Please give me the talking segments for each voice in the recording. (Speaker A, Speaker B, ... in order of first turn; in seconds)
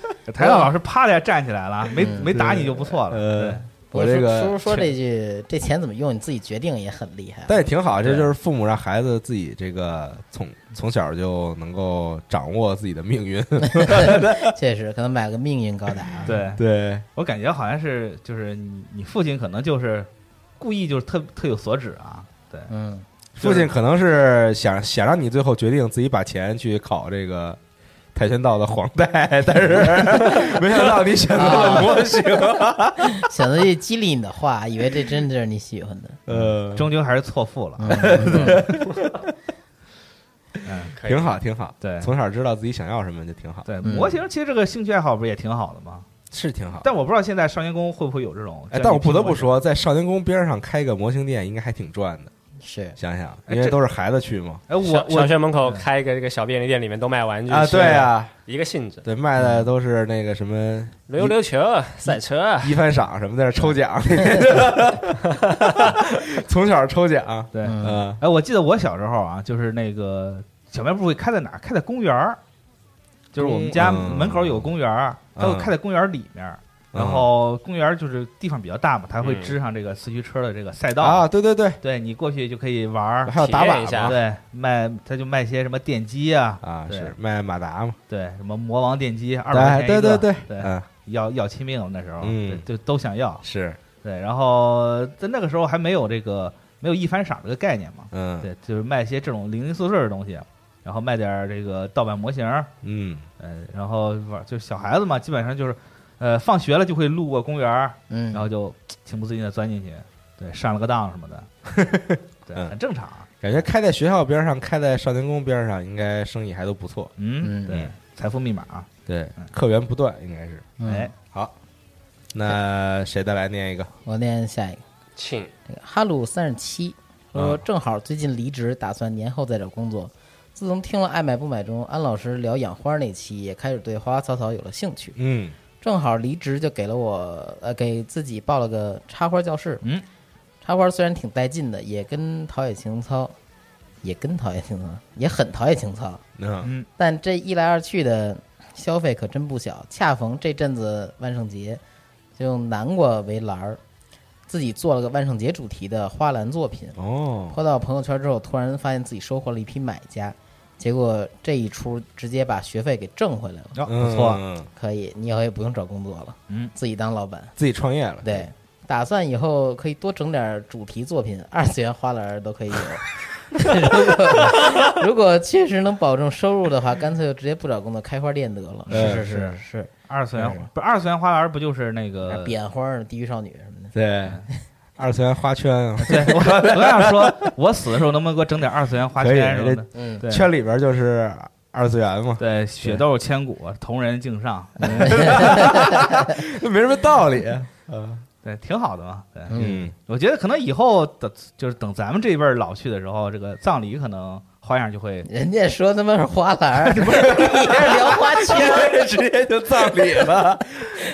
Speaker A: 0.3-3.7, 8.0-8.3, 16.2-16.6, 17.1-22.7, 23.4-23.7, 36.7-38.8, 40.6-40.9, 41.8-42.1, 43.6-46.0, 46.8-49.6, 53.5-53.8, 54.7-55.8, 57.7-58.1, 67.5-72.4, 73.3-81.2, 81.8-83.4, 83.9-87.1, 88.1-93.4, 94.0-102.7, 103.4-111.5, 112.5-113.3, 117.2-119.5, 120.8-121.1, 163.7-164.4, 178.9-182.5, 186.0-190.5, 192.4-195.7, 198.4-205.3, 206.9-207.8
Speaker B: 0.4-0.7, 1.9-2.3, 3.9-7.6, 13.8-16.3, 22.7-23.1, 31.3-32.0, 33.0-36.5, 37.8-38.6, 43.8-44.2, 52.6-53.0, 59.4-59.6, 67.6-68.0, 108.1-108.5, 117.4-117.8, 120.8-121.1, 124.0-124.8, 125.7-135.2, 135.8-139.8, 140.6-143.3, 144.0-146.2, 147.0-151.8, 152.4-153.8, 154.5-157.0, 157.5-163.8, 164.7-167.5, 168.2-180.7, 182.2-183.9, 189.9-190.2, 194.8-196.0, 199.5-199.9, 205.3-209.1, 209.9-210.2
Speaker C: 2.3-4.8, 7.5-14.5, 15.9-17.0, 23.4-27.6, 28.1-33.3, 36.3-36.9, 37.9-39.1, 41.0-43.7, 46.3-46.9, 48.7-52.3, 53.0-54.6, 57.5-58.3, 59.0-61.3, 62.6-68.2, 73.3-74.7, 75.3-75.7, 76.9-77.3, 81.0-81.8, 83.2-84.2, 86.6-88.0, 89.5-90.9, 92.2-92.6, 93.4-93.8, 98.1-98.5, 102.8-103.2, 111.7-112.7, 113.4-117.1, 117.7-117.9, 119.1-120.7, 121.2-121.5, 122.3-123.9, 127.3-127.6, 135.2-135.6, 146.4-146.7, 156.9-157.6, 163.9-164.7, 167.6-168.5, 178.9-179.2, 183.9-184.4, 185.0-187.5, 189.2-192.9, 194.8-198.2, 199.5-199.9, 207.0-210.9
Speaker D: 41.0-41.4, 54.8-59.0, 61.1-62.8, 65.4-65.8, 79.2-79.5, 83.4-84.2, 125.2-125.5